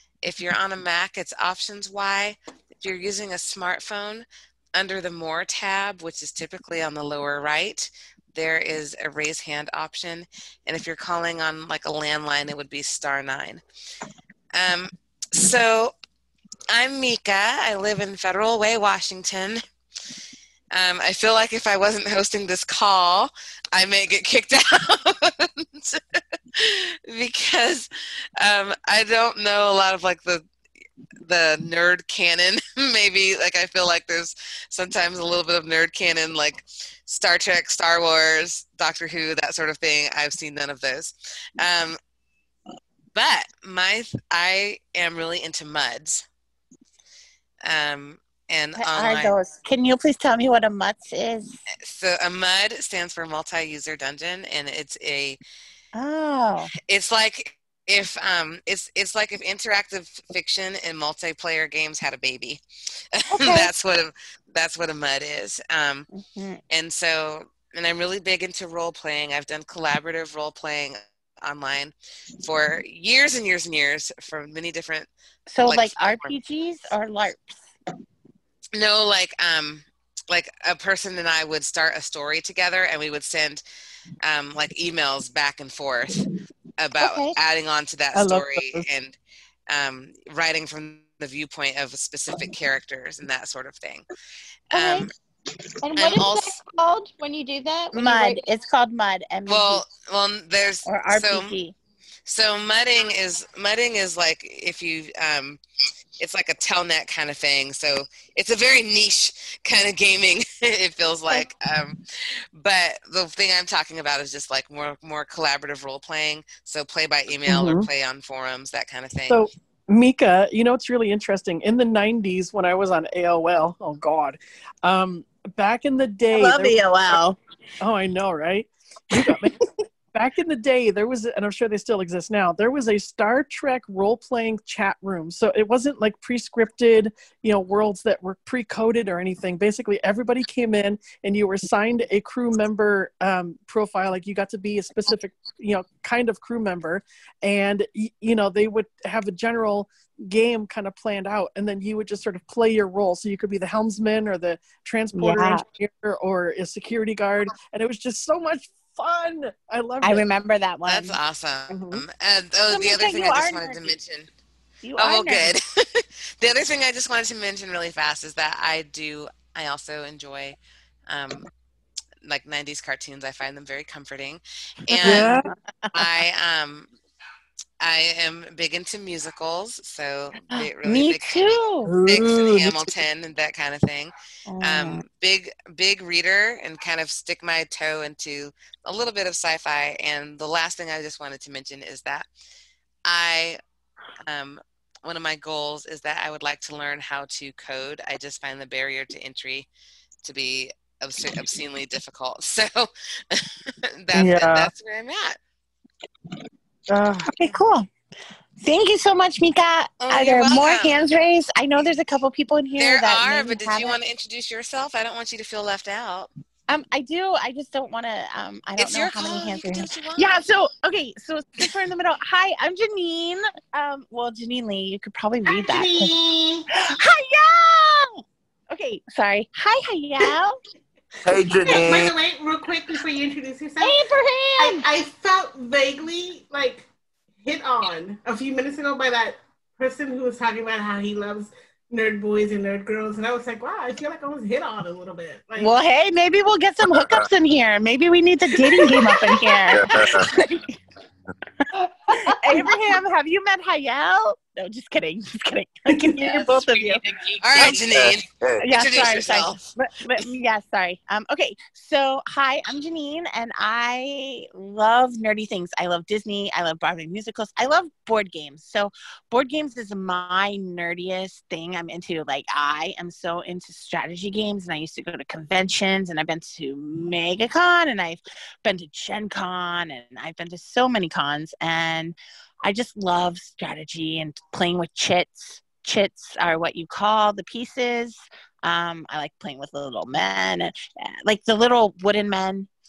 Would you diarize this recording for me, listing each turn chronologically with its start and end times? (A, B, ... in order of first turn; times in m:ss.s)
0:00.2-0:13.6 A
0:14.5-0:15.9 A
0:16.7-0:19.6 A
0:20.7-0:26.0 A
0:26.5-0:27.9 A
0:28.4-0:30.4 A
0:31.2-0:42.0 A
0:43.1-0:46.2 A
0:47.6-0:49.3 A
0:48.8-0:51.6 B
0:51.8-0:55.4 A
0:55.9-0:56.7 B
0:56.9-1:02.6 A
1:03.1-1:06.1 A
1:03.3-1:03.7 B
1:06.1-1:06.6 B
1:06.7-1:15.1 A
1:15.5-1:17.5 B
1:15.6-1:16.3 A
1:18.7-1:23.6 A
1:24.2-1:26.2 A
1:26.8-1:29.2 A
1:27.0-1:27.4 B
1:28.1-1:28.9 C
1:29.7-1:34.0 A
1:34.7-1:35.1 B
1:34.7-1:35.1 A
1:35.8-1:38.4 D
1:35.9-1:36.6 A
1:37.9-1:39.8 B
1:39.5-1:41.5 A
1:40.8-1:41.7 B
1:42.2-1:45.6 A
1:46.2-1:52.0 A
1:52.5-1:59.5 A
1:57.4-1:57.9 C
1:59.3-2:07.2 C
2:06.3-2:07.4 B
2:07.8-2:09.6 C
2:10.1-2:40.2 C
2:35.1-2:35.6 B
2:40.0-2:41.2 B
2:40.8-2:44.3 A
2:42.7-2:43.9 B
2:44.8-2:45.5 B
2:45.0-2:51.5 A
2:52.2-2:56.9 A
2:54.9-2:56.0 B
2:55.0-2:55.5 C
2:57.8-3:12.3 A
3:00.5-3:01.9 B
3:01.8-3:02.9 C
3:04.5-3:05.0 B
3:13.0-3:13.6 A
3:14.3-3:19.7 A
3:20.2-3:23.4 A
3:24.0-3:25.4 A
3:24.1-3:24.7 C
3:26.9-3:27.3 C
3:27.3-3:27.9 B
3:28.6-3:33.9 B
3:30.0-3:31.0 A
3:32.8-3:36.3 A
3:36.7-3:46.2 B
3:38.8-3:40.4 A
3:45.4-3:46.7 E
3:46.7-3:50.6 B
3:51.2-3:52.2 F
3:51.6-3:54.0 E
3:53.8-3:54.8 B
3:54.6-3:56.9 E
3:57.4-4:05.7 E
4:05.6-4:10.7 B
4:07.0-4:07.2 F
4:09.7-4:10.3 F
4:12.2-4:17.0 B
4:17.4-4:19.6 A
4:17.8-4:18.7 F
4:18.6-4:52.7 B